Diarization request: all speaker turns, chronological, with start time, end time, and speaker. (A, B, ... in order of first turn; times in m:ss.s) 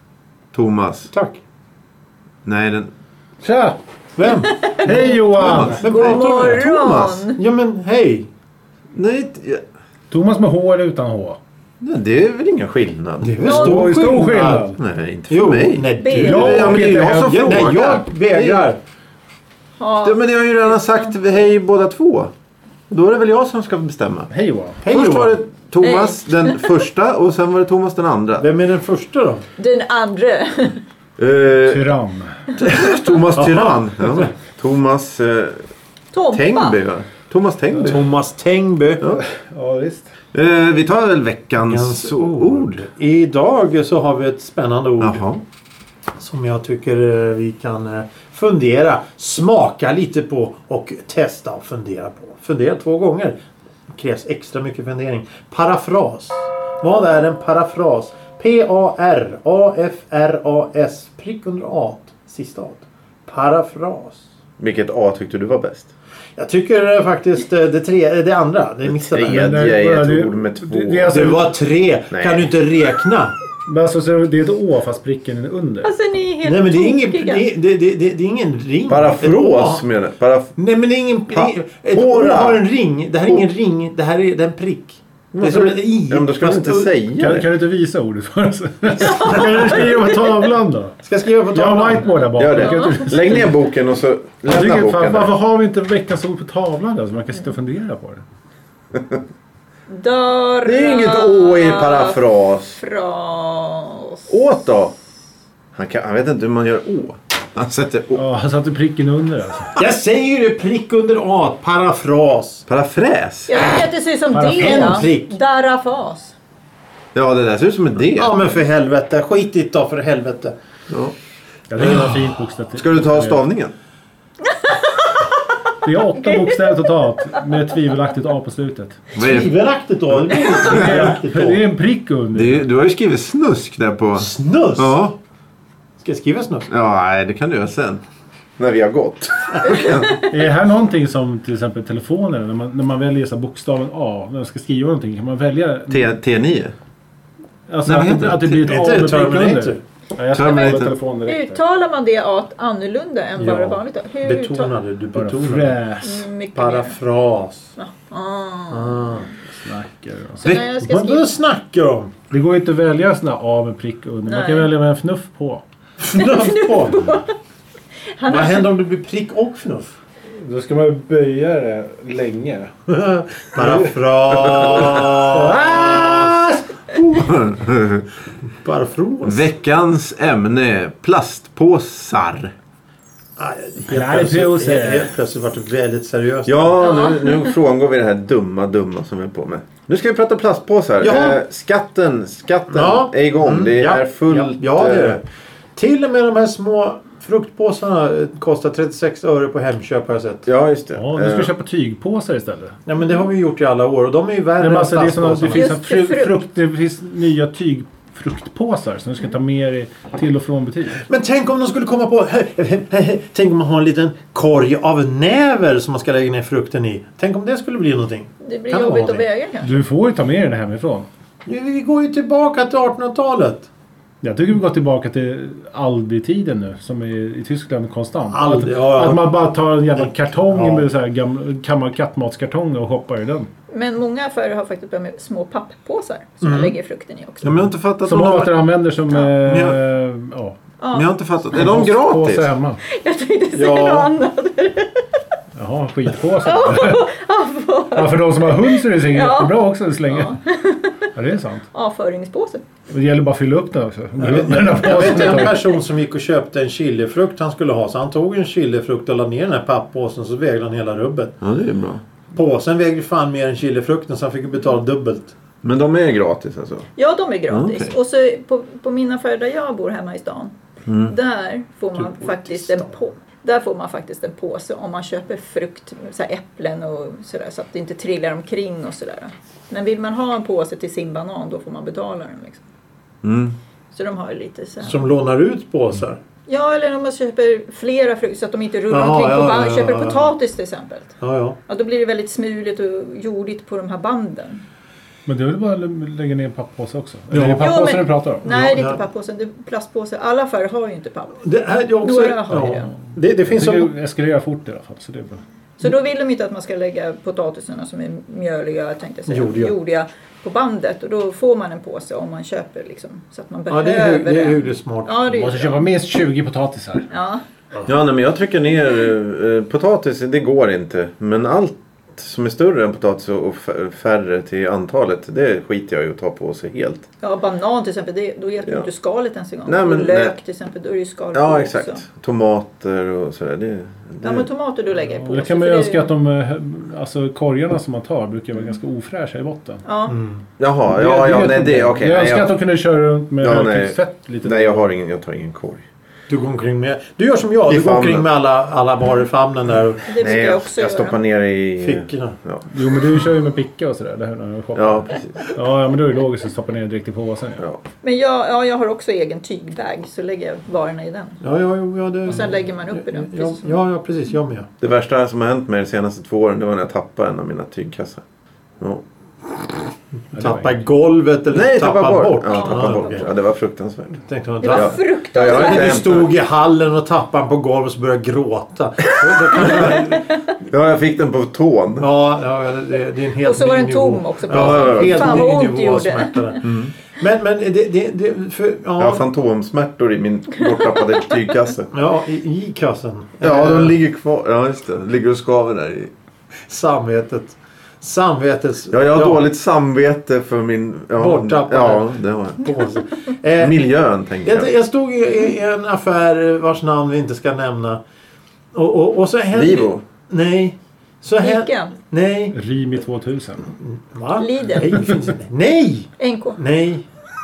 0:00.5-0:01.1 A
0:01.1-0:01.4 B
0:02.4-0:02.9 A
0:03.4-0:03.8 C
0:04.2-0:08.3 B
0:04.2-0:07.4 D
0:04.8-0:05.8 C
0:05.3-0:07.2 A
0:08.9-0:09.6 A
0:10.1-0:11.4 C
0:11.8-0:13.5 A
0:13.2-0:14.7 B
0:13.4-0:14.0 D
0:13.5-0:14.8 C
0:14.8-0:18.7 A
0:15.3-0:18.8 B
0:16.0-0:16.6 D
0:16.0-0:17.7 C
0:19.8-0:21.2 D
0:20.0-0:22.3 A
0:22.9-0:24.3 A
0:24.3-0:24.8 C
0:24.8-0:25.4 B
0:24.9-0:28.5 A
0:25.8-0:26.8 D
0:28.4-0:29.4 B
0:29.6-0:30.8 D
0:31.2-0:31.9 A
0:31.6-0:32.4 C
0:32.6-0:34.3 B
0:32.6-0:35.7 A
0:36.1-0:36.8 D
0:36.3-0:38.0 A
0:37.7-0:38.0 C
0:37.8-0:39.0 B
0:39.1-0:40.1 C
0:40.3-0:42.8 A
0:41.6-0:45.2 B
0:45.0-0:45.4 A
0:46.2-0:53.4 B
0:53.9-1:04.2 B
1:04.6-1:05.9 A
1:06.4-1:09.6 B
1:08.8-1:11.2 A
1:09.2-1:11.6 C
1:11.1-1:13.3 B
1:12.1-1:12.5 A
1:13.7-1:15.9 C
1:15.8-1:17.4 D
1:16.4-1:19.9 B
1:18.9-1:20.6 A
1:20.6-1:26.9 B
1:21.3-1:22.6 A
1:25.3-1:27.5 A
1:27.1-1:33.6 C
1:28.9-1:30.5 D
1:31.0-1:32.1 B
1:32.4-1:35.3 A
1:32.5-1:33.1 D
1:34.4-1:38.2 C
1:39.9-1:42.2 D
1:40.6-1:42.8 A
1:42.8-1:44.4 D
1:44.3-1:44.9 A
1:45.7-1:48.2 A
1:48.1-1:49.8 C
1:49.8-1:52.6 B
1:52.7-1:53.7 A
1:53.5-1:56.3 D
1:54.3-1:55.1 C
1:54.6-1:55.3 B
1:57.1-1:58.3 A
1:58.1-2:00.5 B
2:00.9-2:01.1 A
2:01.7-2:03.4 C
2:01.8-2:03.7 A
2:04.4-2:05.5 D
2:05.8-2:09.1 C
2:06.1-2:06.8 D
2:09.1-2:09.5 A
2:09.2-2:11.6 B
2:10.5-2:11.2 A
2:10.7-2:12.7 C
2:12.3-2:15.2 A
2:14.2-2:15.1 B
2:16.0-2:16.7 B
2:16.7-2:18.0 A
2:18.6-2:20.2 A
2:20.2-2:26.2 C
2:25.9-2:26.7 A
2:27.7-2:31.6 C
2:27.9-2:28.8 A
2:28.6-2:29.8 B
2:30.3-2:31.0 A
2:30.4-2:34.7 D
2:33.4-2:35.8 B
2:35.1-2:36.3 C
2:36.0-2:37.0 D
2:36.6-2:37.7 B
2:37.8-2:39.3 D
2:38.7-2:39.3 B
2:39.4-2:40.6 C
2:40.4-2:41.4 D
2:40.4-2:42.1 B
2:42.3-2:45.6 C
2:44.3-2:44.7 D
2:46.0-2:47.0 B
2:46.2-2:47.3 D
2:48.1-2:48.7 D
2:48.3-2:50.0 B
2:50.3-2:52.7 C
2:52.9-2:57.3 B
2:53.6-2:53.9 C
2:55.3-2:56.4 C
2:57.2-2:58.1 A
2:58.6-2:59.5 B
2:59.2-3:02.5 A
3:03.4-3:06.8 B
3:03.9-3:05.1 C
3:06.5-3:15.2 A
3:06.8-3:07.5 D
3:11.0-3:11.4 B
3:12.7-3:15.2 B
3:15.8-3:20.4 B
3:20.4-3:21.5 A
3:21.0-3:22.8 C
3:22.9-3:25.7 B
3:24.6-3:31.0 C
3:25.5-3:26.4 D
3:31.1-3:39.2 B
3:38.4-3:39.8 D
3:39.6-3:41.1 C
3:41.5-3:43.7 B
3:44.2-3:53.5 C
3:48.3-3:49.3 B
3:50.0-3:50.9 B
3:53.7-3:57.5 D
3:56.4-3:56.7 B
3:57.4-3:59.8 A
3:58.0-4:00.6 C
4:00.8-4:01.1 D
4:00.9-4:02.5 A
4:01.5-4:02.8 C
4:02.9-4:05.0 D
4:03.6-4:04.1 B
4:05.6-4:07.0 C
4:06.4-4:11.0 D
4:07.9-4:10.3 C
4:11.1-4:11.6 C
4:11.7-4:12.6 D
4:12.9-4:15.6 C
4:14.2-4:21.4 B
4:14.8-4:15.8 D
4:21.4-4:22.0 A
4:22.3-4:25.3 B
4:25.6-4:26.9 A
4:27.0-4:30.5 D
4:27.5-4:27.9 A
4:30.9-4:31.1 A
4:31.0-4:42.6 D
4:32.0-4:32.9 B
4:43.2-4:43.6 A
4:43.9-4:45.1 D
4:44.8-4:46.2 B
4:46.5-4:51.1 D
4:48.9-4:50.3 B
4:51.2-4:51.6 B
4:51.7-4:54.6 D
4:55.3-4:58.5 C
4:57.3-4:57.7 B
4:57.6-5:01.4 D
4:58.4-4:59.0 B
5:01.4-5:03.9 B
5:02.0-5:02.9 D
5:02.5-5:05.4 C
5:05.8-5:15.8 D
5:09.3-5:09.8 B
5:13.7-5:15.2 B
5:15.3-5:17.1 C
5:17.1-5:17.4 D
5:17.9-5:27.1 A
5:27.2-5:32.0 D
5:29.6-5:30.4 A
5:31.3-5:34.5 A
5:34.2-5:36.1 D
5:35.0-5:39.8 C
5:39.8-5:40.1 D
5:40.1-5:40.4 B
5:40.6-5:42.5 A
5:40.9-5:44.9 C
5:43.4-5:45.8 A
5:46.3-5:50.1 B
5:47.7-5:48.3 A
5:50.1-5:51.2 D
5:50.2-5:52.6 A
5:51.8-5:52.4 B
5:52.7-5:57.6 C
5:54.8-5:55.5 A
5:58.0-6:01.4 D
6:01.4-6:04.7 B
6:02.2-6:03.8 D
6:04.8-6:08.2 A
6:08.8-6:09.8 A
6:10.3-6:10.8 C
6:10.4-6:13.3 B
6:11.5-6:14.2 A
6:12.5-6:13.3 D
6:14.2-6:20.3 B
6:14.6-6:16.0 D
6:14.7-6:16.3 A
6:19.6-6:19.9 A
6:20.7-6:22.1 A
6:22.0-6:29.2 B
6:23.4-6:26.6 D
6:24.5-6:25.6 A
6:26.6-6:26.9 A
6:29.0-6:31.9 A
6:31.9-6:34.0 B
6:33.4-6:36.1 A
6:36.7-6:39.4 B
6:38.9-6:42.7 A
6:41.2-6:43.8 B
6:43.6-6:44.7 A
6:44.4-6:48.0 B
6:48.7-6:52.6 B
6:49.5-6:50.0 A
6:51.4-6:52.0 D
6:52.5-6:53.7 C
6:53.8-6:57.0 B
6:54.4-6:54.9 D
6:56.2-6:56.6 D